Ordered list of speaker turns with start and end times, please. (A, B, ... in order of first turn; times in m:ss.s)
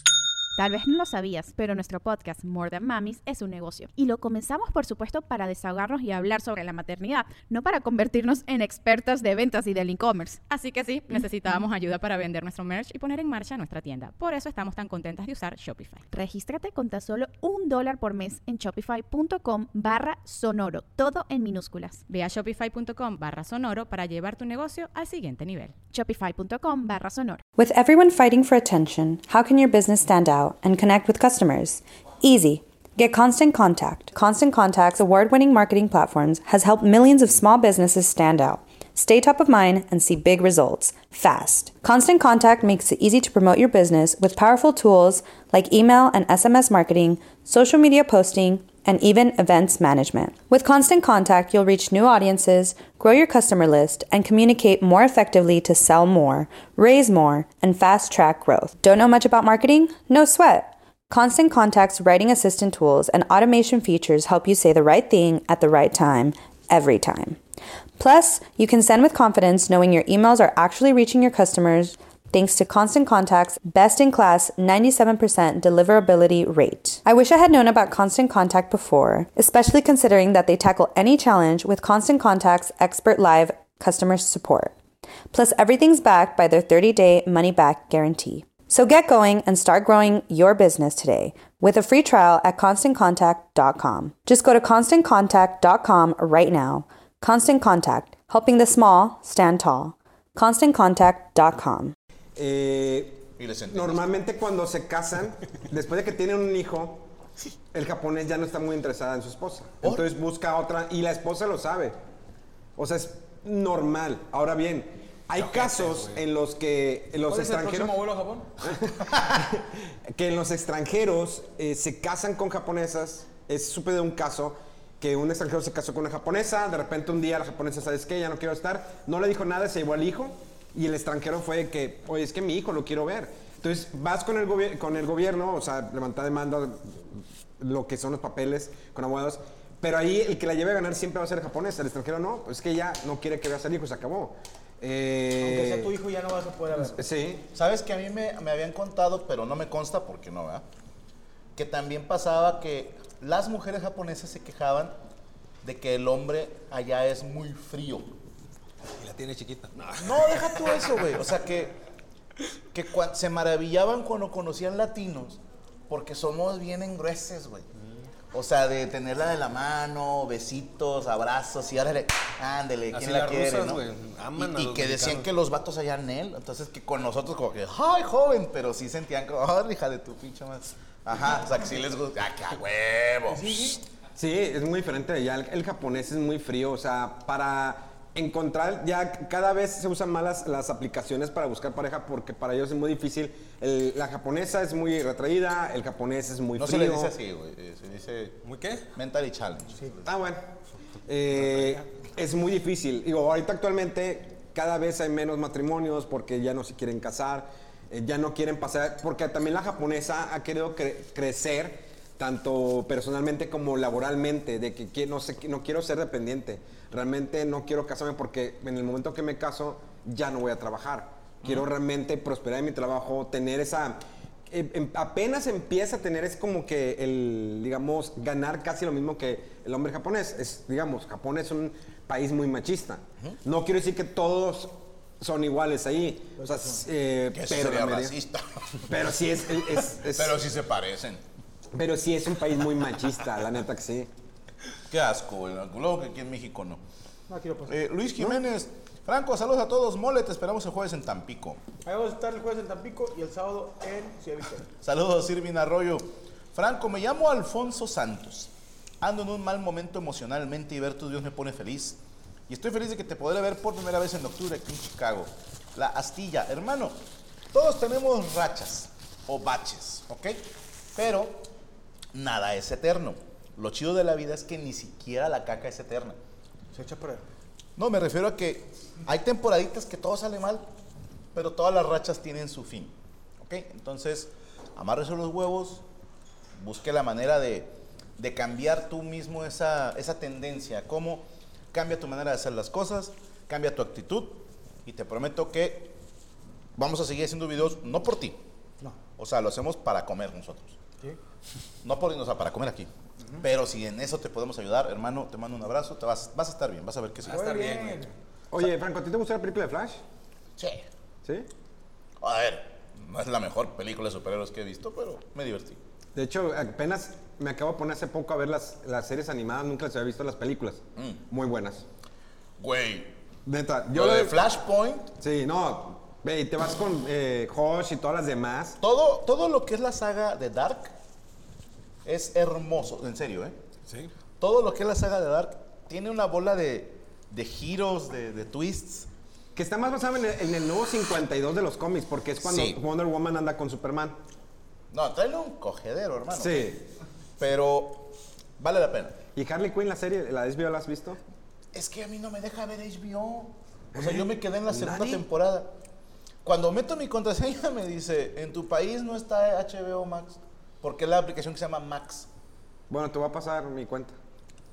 0:00.6-0:10.4 A
0:10.5-0:16.0 B
0:16.1-0:22.0 A
0:22.1-0:25.8 B
0:25.9-0:27.4 A
0:27.6-1:07.4 C
1:08.0-1:24.8 C
1:25.3-1:41.9 C
1:42.4-1:47.0 D
1:43.4-1:44.1 E
1:47.7-1:52.0 D
1:49.8-1:50.1 E
1:52.8-1:58.0 D
1:55.5-1:56.2 F
1:57.3-1:58.5 G
1:58.6-2:25.9 D
2:25.4-2:27.0 G
2:26.8-2:27.5 D
2:27.5-2:30.7 E
2:31.6-2:35.0 E
2:35.6-2:38.1 E
2:39.0-2:41.2 F
2:40.0-2:41.7 E
2:42.7-2:47.7 E
2:48.3-3:03.8 E
2:52.9-2:55.3 F
3:03.3-3:03.8 G
3:04.2-3:17.1 D
3:16.6-3:18.4 E
3:18.4-3:18.9 F
3:18.9-3:20.1 E
3:20.0-3:20.4 D
3:21.0-3:58.2 D
3:21.5-3:21.8 F
3:41.4-3:41.7 E
3:56.4-3:56.8 G
3:57.3-3:59.0 E
3:58.9-4:00.4 D
3:59.8-4:01.2 E
4:01.7-4:04.1 D
4:04.9-4:06.8 E
4:07.3-4:07.9 G
4:07.7-4:11.6 E
4:11.8-4:14.7 G
4:14.8-4:31.5 E
4:32.1-4:36.2 E
4:36.7-4:37.3 G
4:37.8-4:40.7 E
4:41.3-4:45.8 E
4:46.6-4:56.0 E
4:56.8-4:58.4 E
4:59.2-5:00.8 E
5:01.8-5:07.5 E
5:07.2-5:08.0 F
5:07.3-5:08.1 G
5:08.5-5:10.0 D
5:10.6-5:10.9 E
5:12.2-5:15.8 E
5:16.2-5:21.8 D
5:21.0-5:21.2 E
5:22.6-5:23.2 E
5:23.5-5:24.4 D
5:23.9-5:25.1 E
5:25.2-5:28.8 D
5:28.8-5:31.0 E
5:32.0-5:33.6 E
5:34.4-5:39.1 E
5:39.6-5:44.2 D
5:42.4-5:42.8 E
5:44.9-5:46.8 E
5:46.4-5:46.8 D
5:47.4-5:49.2 E
5:49.4-5:51.2 D
5:51.7-5:55.7 E
5:53.9-5:55.2 D
5:56.4-6:02.3 E
6:02.9-6:04.2 D